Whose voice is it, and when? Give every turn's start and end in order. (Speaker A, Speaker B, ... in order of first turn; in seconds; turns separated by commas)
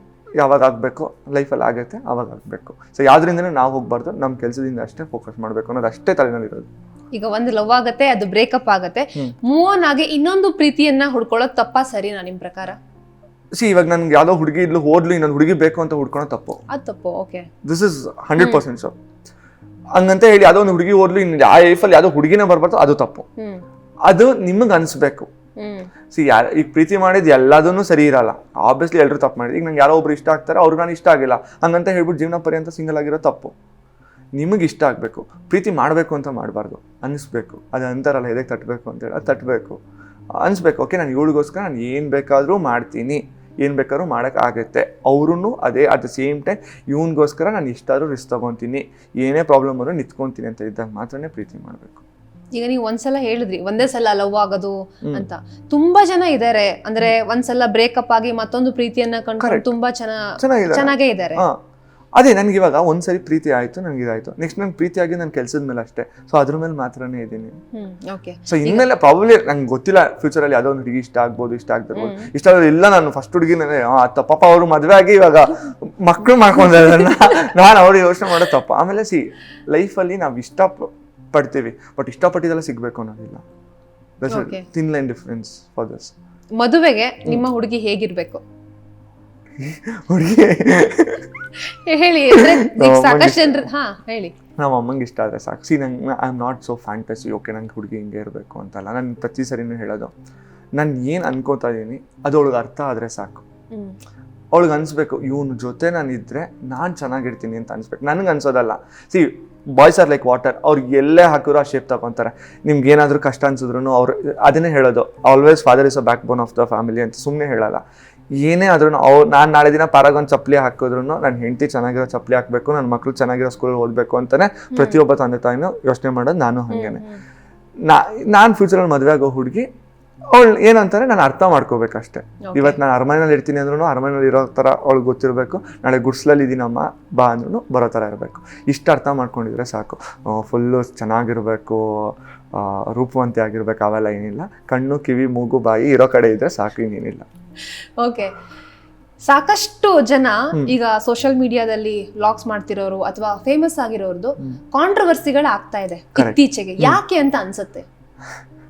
Speaker A: 0.4-6.7, Speaker B: 7.1-12.8, Speaker A: 13.6-16.6, Speaker B: 16.7-17.5, Speaker A: 17.6-18.9, Speaker A: 19.9-23.2, Speaker A: 24.1-25.3, Speaker B: 25.6-25.9, Speaker A: 26.1-33.5, Speaker A: 34.4-39.8, Speaker A: 40.4-52.0, Speaker B: 52.5-61.4, Speaker A: 59.4-59.7, Speaker A: 60.4-61.6, Speaker A: 62.2-67.6, Speaker B: 67.7-68.8, Speaker A: 68.5-83.4, Speaker B: 71.9-72.3, Speaker A: 84.2-86.1, Speaker B: 84.3-84.6, Speaker B: 86.6-88.4, Speaker A: 89.6-91.3, Speaker B: 91.6-94.3, Speaker A: 92.3-93.7, Speaker A: 94.6-100.1, Speaker A: 100.8-103.4, Speaker A: 104.5-117.8, Speaker A: 118.4-127.0, Speaker B: 124.7-125.0, Speaker B: 126.7-127.2, Speaker A: 127.8-129.7, Speaker A: 130.3-147.2, Speaker B: 132.4-132.8, Speaker B: 148.0-148.3, Speaker B: 149.2-157.8, Speaker A: 156.2-157.0